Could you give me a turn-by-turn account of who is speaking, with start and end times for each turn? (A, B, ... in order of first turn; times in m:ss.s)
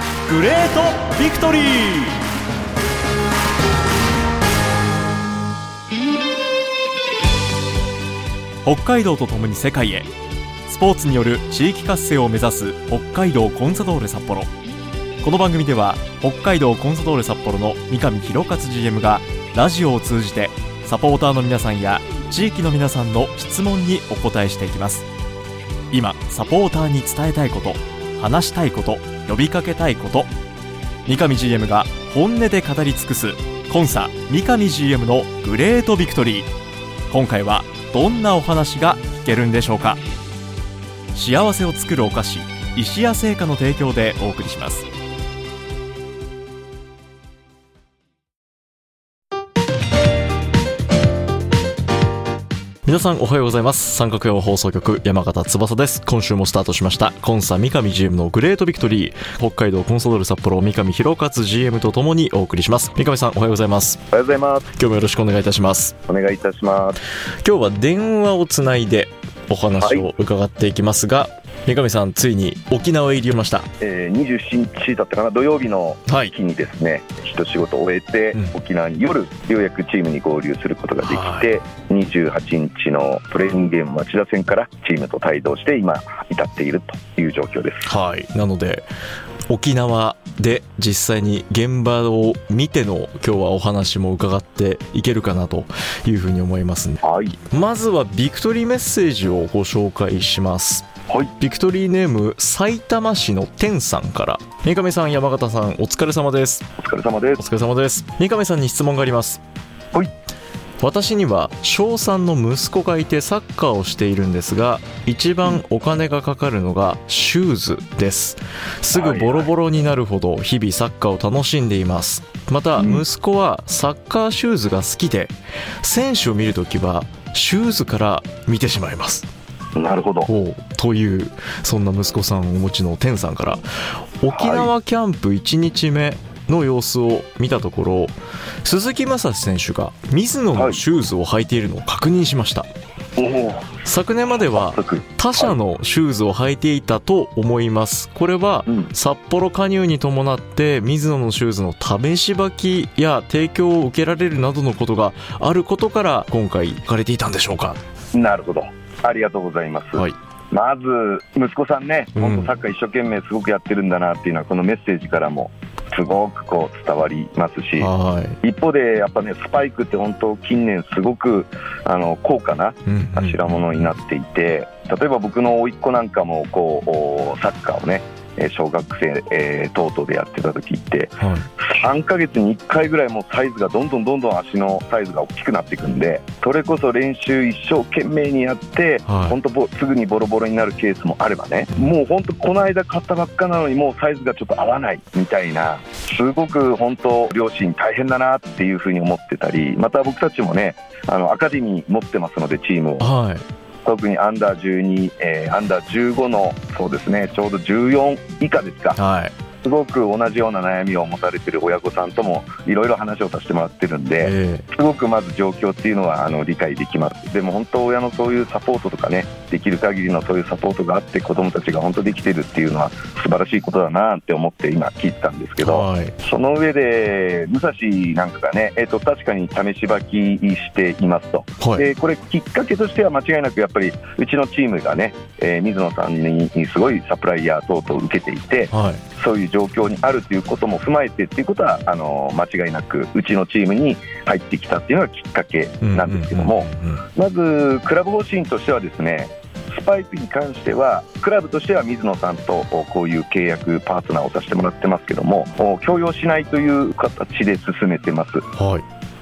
0:00.2-0:02.3 A
0:08.6-0:10.1 A
0:10.7-0:14.5 A
0:15.2-0:25.1 A
0:25.9-0:30.3 A
0:31.1-0:36.5 A
0:37.1-0:40.0 A
0:41.1-0:44.9 A
0:52.8-1:04.0 A
1:04.1-1:04.7 B
1:04.7-1:06.0 A
1:06.1-1:07.0 B
1:07.4-1:13.7 A
1:09.8-1:10.1 B
1:13.8-1:27.9 B
1:16.1-1:16.3 A
1:21.0-1:21.5 A
1:27.9-1:28.9 A
1:29.5-1:46.7 A
1:37.0-1:37.4 B
1:46.8-1:47.4 B
1:47.4-1:49.4 A
1:50.8-2:09.3 A
1:58.9-1:59.5 B
2:02.8-2:03.0 B
2:09.8-2:10.3 B
2:10.3-2:22.7 A
2:14.3-2:14.7 B
2:23.2-2:23.8 B
2:23.8-2:37.8 A
2:24.5-2:25.5 B
2:38.1-3:23.1 B
2:42.2-2:42.5 A
2:47.8-2:48.4 A
2:52.9-2:53.9 A
3:01.2-3:01.5 A
3:09.1-3:09.4 A
3:23.0-3:23.4 A
3:23.8-3:29.0 B
3:29.0-3:29.3 A
3:29.6-4:18.5 B
3:34.2-3:34.7 A
3:45.6-3:46.2 A
3:51.6-3:51.9 A
3:58.7-3:59.0 A
4:05.8-4:07.0 A
4:18.6-4:18.8 A